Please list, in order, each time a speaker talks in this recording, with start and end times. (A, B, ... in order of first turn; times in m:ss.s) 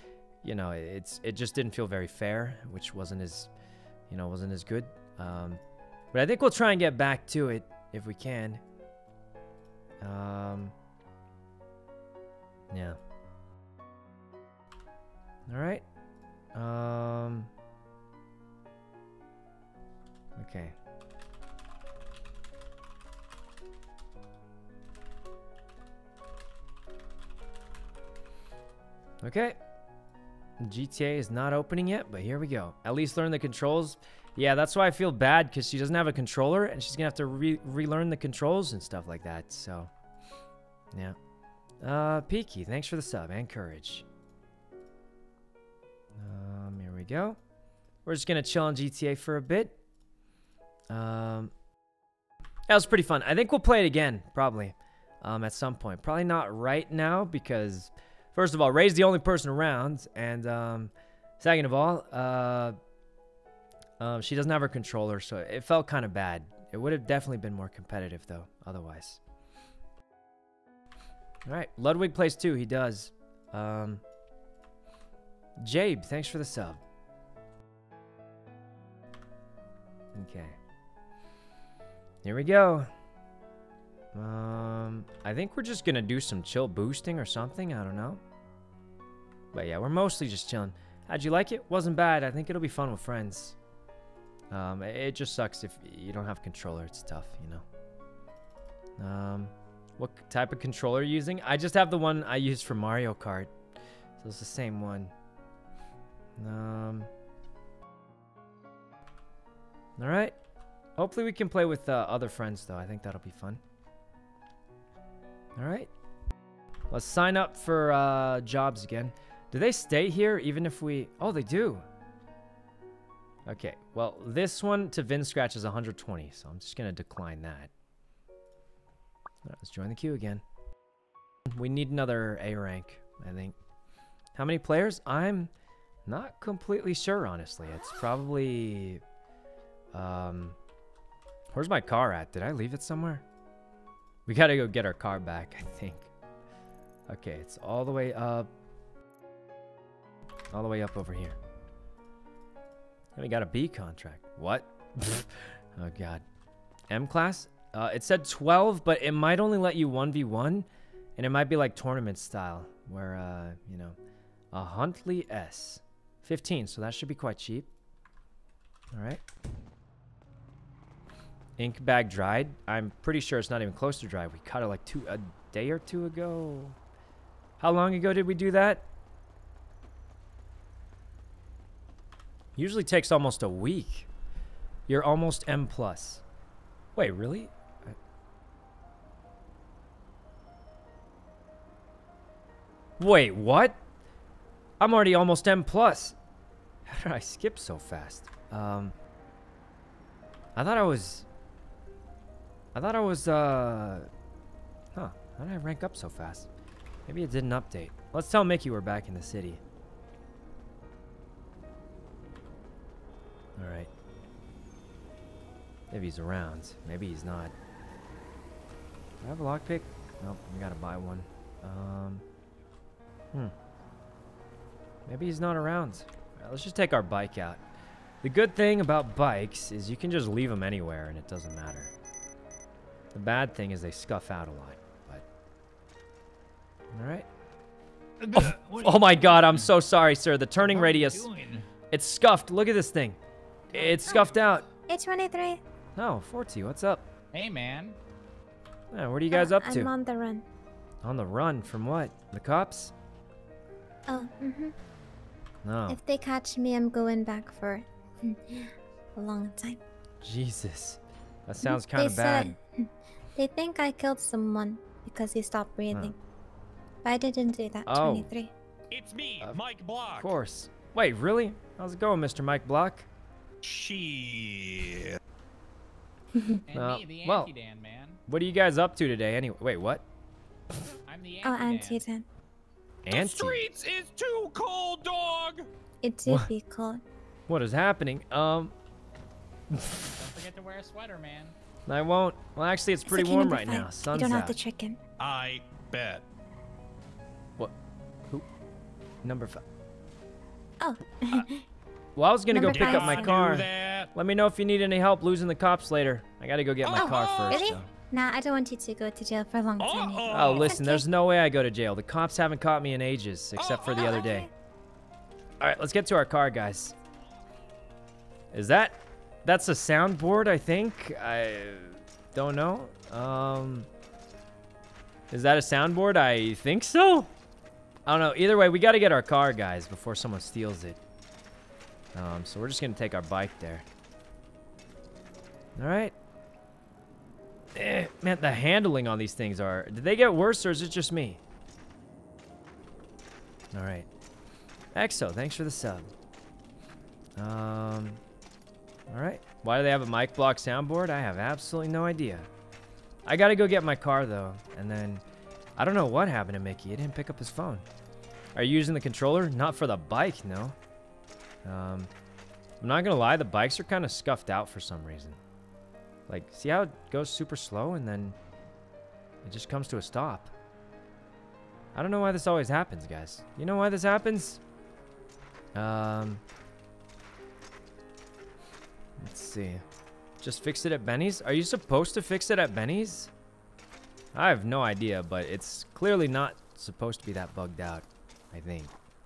0:00.4-0:03.5 A
0:04.1-0:05.6 A
0:06.1-0:08.6 A
0:10.0-0:10.7 A
0:12.7-0:13.0 A
0:15.5-0:15.8 A
0:16.5-0:17.5 A
0:20.4-0:20.7 A
0:29.2-0:29.6 A
0:30.6-0:39.9 A
0:41.8-0:44.0 A
0:46.2-0:47.4 A
0:48.0-0:49.8 A
0:50.9-0:51.5 A
0:52.7-1:02.8 A
1:04.0-1:09.2 A
1:11.4-1:14.0 A
1:15.6-1:16.8 A
1:20.1-1:20.6 A
1:22.2-1:22.9 A
1:24.1-1:28.2 A
1:29.5-1:33.6 A
1:34.5-1:37.6 A
1:39.0-1:43.5 A
1:44.2-1:45.1 A
1:46.4-1:47.1 A
1:50.0-1:50.3 A
1:51.0-1:53.6 A
1:55.6-1:55.9 A
1:56.9-2:01.8 A
2:03.4-2:07.7 A
2:09.4-2:10.4 A
2:11.5-2:13.5 A
2:14.4-2:15.5 A
2:16.0-2:19.0 A
2:19.9-2:20.6 A
2:21.5-2:23.2 A
2:24.3-2:26.1 A
2:27.1-2:28.5 A
2:30.5-2:31.4 A
2:33.2-2:36.2 A
2:36.9-2:44.0 A
2:44.5-2:47.7 A
2:48.9-2:49.2 A
2:51.6-2:56.8 A
2:57.6-2:58.8 A
3:02.6-3:04.1 A
3:04.9-3:06.2 A
3:07.0-3:08.0 A
3:13.0-3:13.8 A
3:14.8-3:16.2 A
3:16.8-3:18.9 A
3:20.6-3:21.3 A
3:22.7-3:24.1 A
3:24.9-3:26.5 A
3:27.1-3:29.6 A
3:33.6-3:33.9 A
3:35.9-3:37.5 A
3:39.2-3:42.2 A
3:45.0-3:47.6 A
3:48.2-3:51.9 A
3:53.1-3:55.2 A
3:56.9-3:57.3 A
3:58.2-3:59.6 B
3:58.3-4:01.3 A
4:00.7-4:01.6 B
4:01.9-4:03.2 A
4:03.7-4:04.6 A
4:04.9-4:05.6 C
4:06.0-4:07.1 A
4:07.3-4:08.0 D
4:08.9-4:09.9 A
4:09.3-4:10.4 C
4:11.0-4:12.9 A
4:14.1-4:14.7 C
4:15.6-4:16.0 A
4:15.9-4:19.8 C
4:20.2-4:22.6 A
4:21.6-4:26.1 C
4:27.0-4:28.5 C
4:27.8-4:28.3 A
4:28.9-4:30.3 B
4:30.2-4:33.1 A
4:33.6-4:35.2 B
4:36.3-4:36.6 C
4:36.7-4:38.2 D
4:36.7-4:37.5 A
4:38.3-4:40.0 A
4:41.0-4:42.0 D
4:41.4-4:42.2 C
4:43.0-4:43.7 A
4:43.1-4:45.7 B
4:46.0-4:47.0 C
4:47.5-4:48.7 A
4:49.7-4:50.0 A
4:50.2-4:51.5 D
4:51.9-4:54.5 A
4:53.0-4:55.0 C
4:55.2-4:56.2 B
4:59.2-4:59.6 A
5:00.8-5:01.6 C
5:02.2-5:07.9 A
5:02.5-5:03.4 C
5:02.6-5:04.1 B
5:06.9-5:07.6 B
5:07.0-5:11.0 C
5:09.8-5:10.8 B
5:10.3-5:14.5 A
5:13.6-5:14.2 B
5:14.0-5:14.5 C
5:15.6-5:17.0 A
5:18.5-5:23.9 A
5:25.3-5:27.3 A
5:28.0-5:31.0 A
5:32.1-5:33.8 A
5:35.8-5:36.1 A
5:37.7-5:41.4 A
5:43.7-5:44.1 A
5:44.9-5:46.1 A
5:47.4-5:48.2 A
5:49.1-5:52.5 A
5:53.2-5:55.2 A
5:55.8-5:57.8 A
5:58.5-6:00.7 A
6:01.6-6:02.1 A
6:02.8-6:05.4 A
6:06.3-6:08.4 A
6:09.4-6:10.5 A
6:11.9-6:14.6 A
6:15.7-6:16.4 A
6:19.2-6:19.8 A
6:20.4-6:23.3 A
6:24.3-6:28.9 A